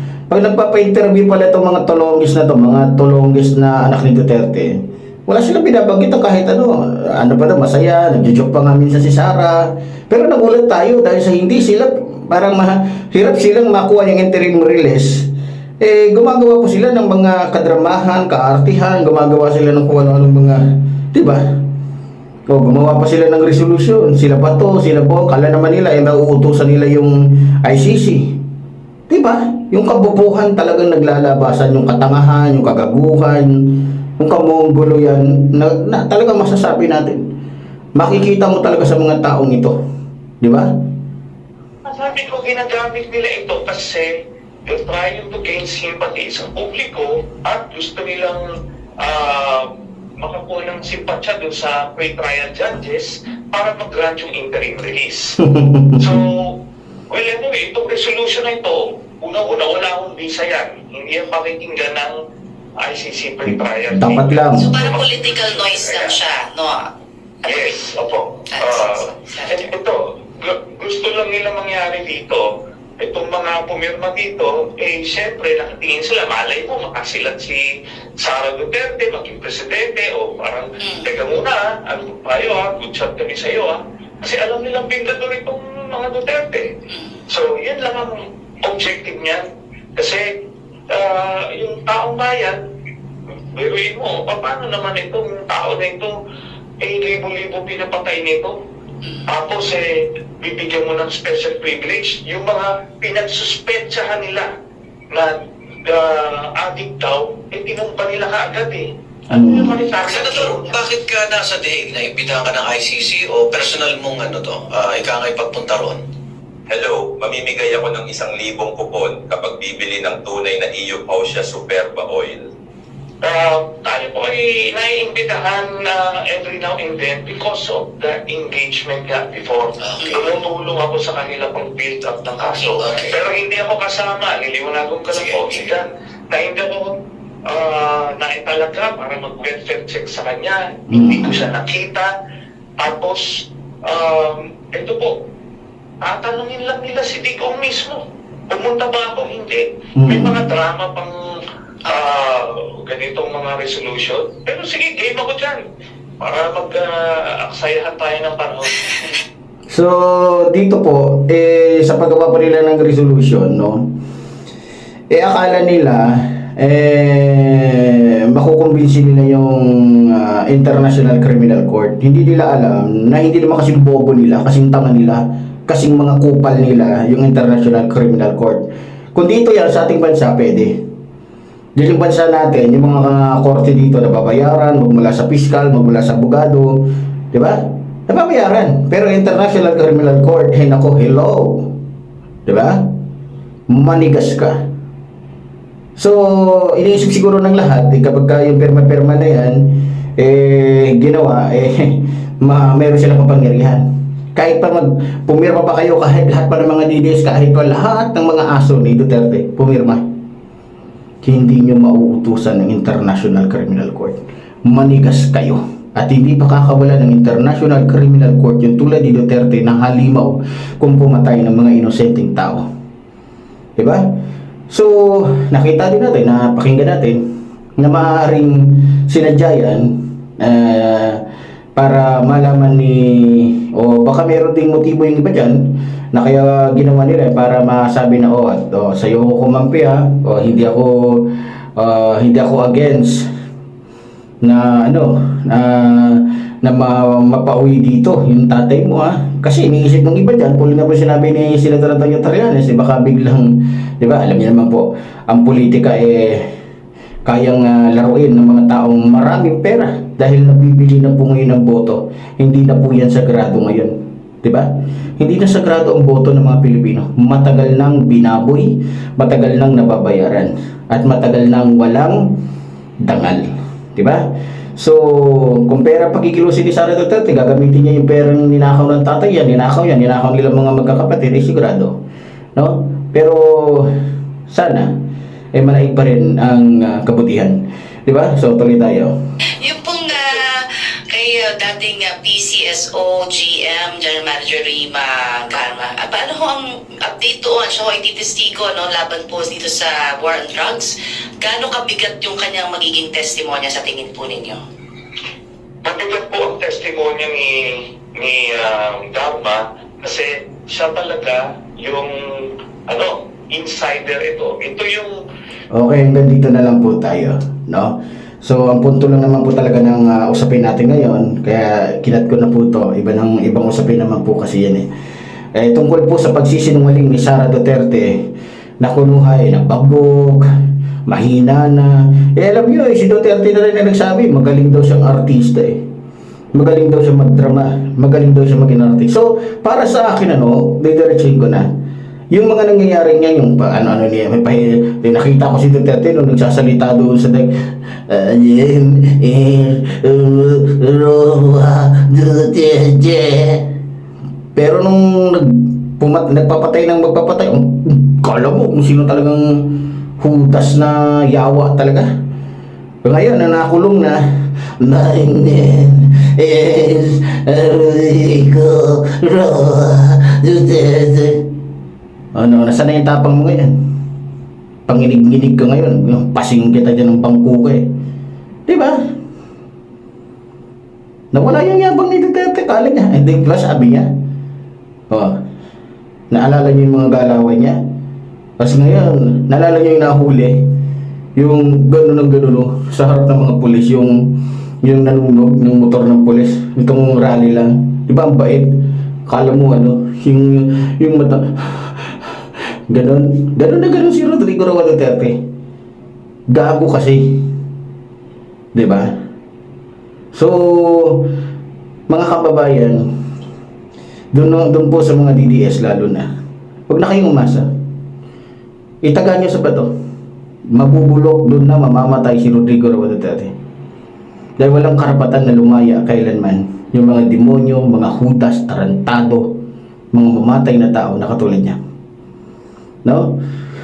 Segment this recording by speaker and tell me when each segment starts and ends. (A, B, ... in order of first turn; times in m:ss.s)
0:00.3-0:04.8 A
0:05.3-0:21.4 A
0:22.5-0:28.4 A
0:29.1-0:37.2 A
0:38.0-0:39.8 A
0:40.4-0:40.7 A
0:41.9-0:44.1 B
0:44.7-0:48.4 B
0:49.0-0:49.7 B
0:50.2-0:55.3 B
0:55.4-0:56.2 A
0:56.0-0:56.5 B
0:57.1-1:02.2 B
1:02.8-1:06.2 B
1:03.5-1:04.7 A
1:04.6-1:06.8 C
1:07.5-1:12.5 B
1:07.5-1:07.7 C
1:08.5-1:09.7 C
1:13.0-1:17.6 B
1:18.2-1:26.7 B
1:20.8-1:21.1 C
1:26.9-1:27.2 C
1:27.3-1:29.4 B
1:30.0-1:30.2 B
1:30.9-1:32.6 B
1:33.6-1:36.1 B
1:36.8-1:38.5 B
1:39.3-1:39.8 B
1:40.4-1:44.5 B
1:45.9-1:50.7 B
1:49.3-1:49.8 A
1:50.0-1:56.0 D
1:56.7-2:02.5 E
2:03.2-2:16.9 B
2:10.0-2:10.3 C
2:15.3-2:15.6 D
2:17.5-2:22.1 B
2:20.9-2:21.4 A
2:22.8-2:23.3 B
2:23.9-2:25.1 B
2:26.0-2:31.2 B
2:30.0-2:30.4 A
2:31.9-2:35.6 B
2:36.2-2:39.0 B
2:39.7-2:43.9 A
2:45.1-3:00.8 A
3:01.8-3:11.7 A
3:12.5-3:12.8 A
3:13.7-3:14.6 A
3:16.0-3:23.8 A
3:24.4-3:30.0 A
3:31.2-3:42.6 A
3:43.8-3:44.0 A
3:44.7-3:47.2 A
3:47.8-3:51.2 A
3:51.8-4:03.3 A
4:04.4-4:16.5 A
4:17.2-4:24.7 A
4:25.2-4:32.4 A
4:33.0-4:34.2 A
4:34.8-4:42.0 A
4:42.6-4:43.9 A
4:44.5-4:44.9 A
4:45.5-4:49.1 A
4:49.6-4:50.5 C
4:50.1-4:50.4 B
4:51.1-5:04.6 C
5:05.8-5:15.2 B
5:15.7-5:24.9 A
5:25.6-5:28.3 A
5:28.8-5:30.4 A
5:31.1-5:35.8 A
5:36.5-5:41.7 A
5:42.3-5:47.5 A
5:48.1-5:53.7 A
5:54.6-6:02.1 A
6:03.0-6:04.2 A
6:04.8-6:11.5 A
6:12.3-6:13.8 A
6:14.9-6:17.9 A
6:18.7-6:19.0 A
6:21.3-6:24.1 A
6:25.1-6:25.4 A
6:26.3-6:27.8 A
6:28.6-6:30.6 A
6:31.4-6:42.1 A
6:42.9-6:45.4 A
6:46.5-6:47.4 A
6:48.7-6:49.1 A
6:50.3-6:51.3 A
6:52.1-6:53.0 A
6:54.3-6:56.3 A
6:56.9-6:57.7 A
6:59.0-6:59.9 A
7:00.7-7:03.5 A
7:04.6-7:09.5 A
7:10.1-7:11.8 A
7:13.0-7:13.4 A